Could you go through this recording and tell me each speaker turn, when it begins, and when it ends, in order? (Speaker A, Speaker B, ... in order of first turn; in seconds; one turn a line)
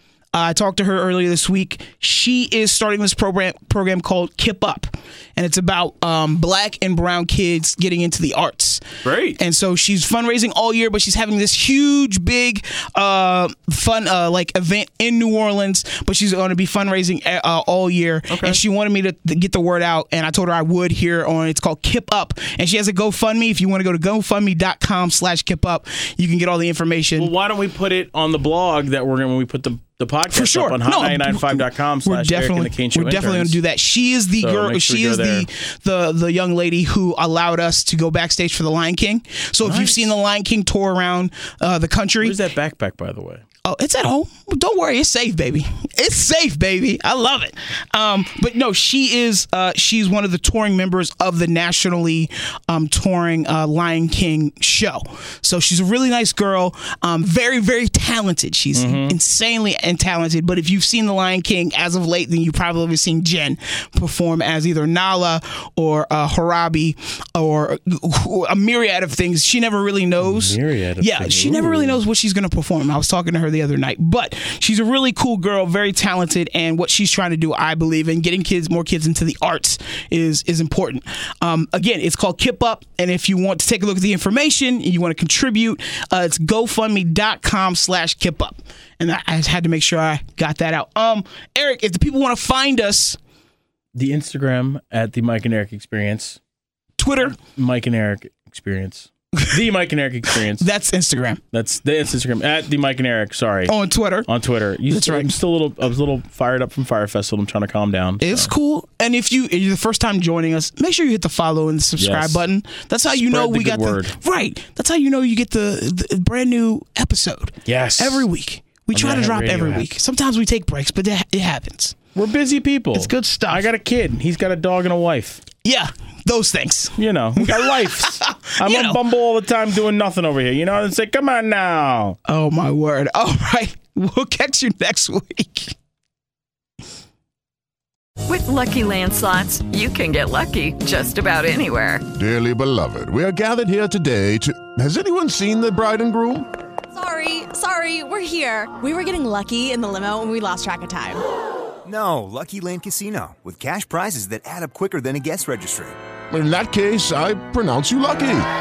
Speaker A: 0.3-27.3
Speaker B: 9.0-9.4
Speaker B: 18.3-18.6
Speaker B: 27.2-33.6
Speaker A: 30.3-42.4
Speaker B: 34.4-35.5
Speaker B: 39.6-40.1
Speaker B: 42.2-43.4
Speaker A: 43.6-93.2
Speaker B: 58.7-59.2
Speaker B: 70.2-72.0
Speaker B: 94.0-96.4
Speaker A: 97.0-97.3
Speaker B: 97.2-100.7
Speaker A: 100.6-101.4
Speaker B: 101.5-103.7
Speaker A: 103.7-104.3
Speaker B: 104.3-108.5
Speaker A: 104.9-105.3
Speaker A: 108.2-122.0
Speaker B: 112.0-112.4
Speaker B: 113.1-114.1
Speaker B: 117.7-118.3
Speaker B: 118.9-119.9
Speaker B: 122.2-125.4
Speaker A: 122.9-123.7
Speaker A: 125.6-129.0
Speaker B: 127.0-132.2
Speaker A: 132.3-135.7
Speaker C: 138.3-142.1
Speaker D: 142.1-146.5
Speaker E: 146.9-151.2
Speaker F: 151.8-156.0
Speaker D: 156.3-158.5